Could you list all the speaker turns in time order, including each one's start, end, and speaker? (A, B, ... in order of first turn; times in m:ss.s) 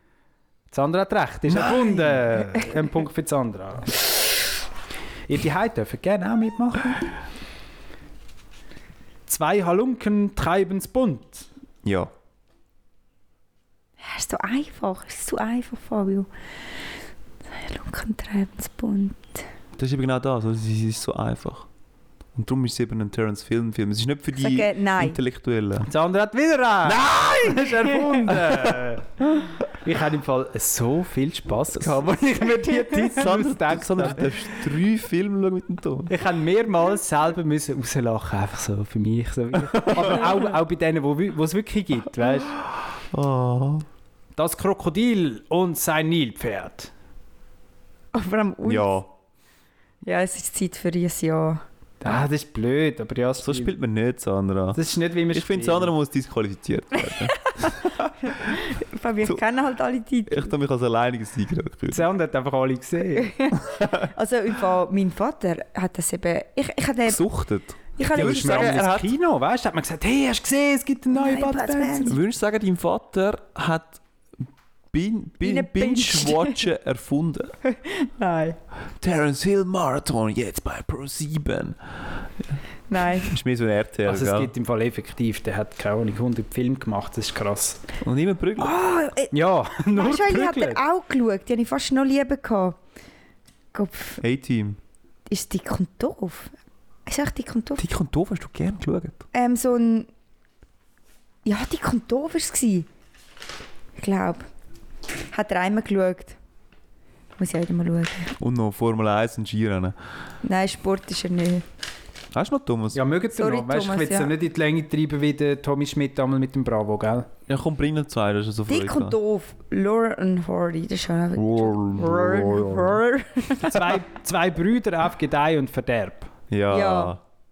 0:00.7-0:04.1 A
0:01.5-0:02.2 B
0:05.3-0:07.1 A
0:09.3-0:11.5 A
0:11.8-0:12.1 B
0:14.0-0:16.3 C
0:17.5-0:19.5 C
0:19.8-0:21.7 B
0:22.3-0:25.9 B
0:24.4-0:25.2 C
0:25.9-0:34.5 A
0:26.8-0:28.8 B
0:33.0-0:36.1 B
0:36.1-0:42.6 A
0:39.8-0:40.2 B
0:40.0-0:40.4 C
0:43.1-0:43.8 B
0:44.4-0:46.9 A
0:48.1-0:49.0 C
0:48.6-0:49.1 B
0:50.0-0:51.6 C
0:52.0-0:53.7 A
0:53.4-0:54.8 B
0:54.7-0:55.9 A
0:55.3-0:58.6 B
0:57.1-1:00.5 C
1:00.3-1:02.0 B
1:01.9-1:03.4 A
1:03.2-1:07.3 C
1:03.7-1:04.1 B
1:07.0-1:09.1 B
1:08.0-1:08.8 C
1:08.0-1:12.2 A
1:11.1-1:12.2 C
1:12.0-1:14.0 B
1:14.9-1:17.5 B
1:15.4-1:16.6 C
1:17.6-1:18.6 C
1:19.0-1:21.8 B
1:22.9-1:23.3 C
1:23.2-1:24.5 B
1:24.0-1:27.8 A
1:28.0-1:28.8 B
1:28.6-1:29.3 C
1:29.3-1:30.8 A
1:29.9-1:32.8 C
1:33.7-1:34.2 C
1:34.2-1:34.8 B
1:35.3-1:36.5 C
1:37.0-1:37.8 C
1:37.8-1:39.2 B
1:39.3-1:40.1 C
1:41.4-1:42.9 C
1:44.0-1:44.5 C
1:45.3-1:46.4 C
1:47.4-1:48.3 C
1:48.4-1:50.0 B
1:50.4-1:51.6 C
1:52.3-1:53.0 B
1:52.9-1:57.3 A
1:53.3-1:54.3 C
1:57.5-1:59.2 B
1:58.7-2:03.8 C
2:01.4-2:03.0 B
2:03.6-2:06.3 A
2:06.5-2:07.2 B
2:06.7-2:07.2 C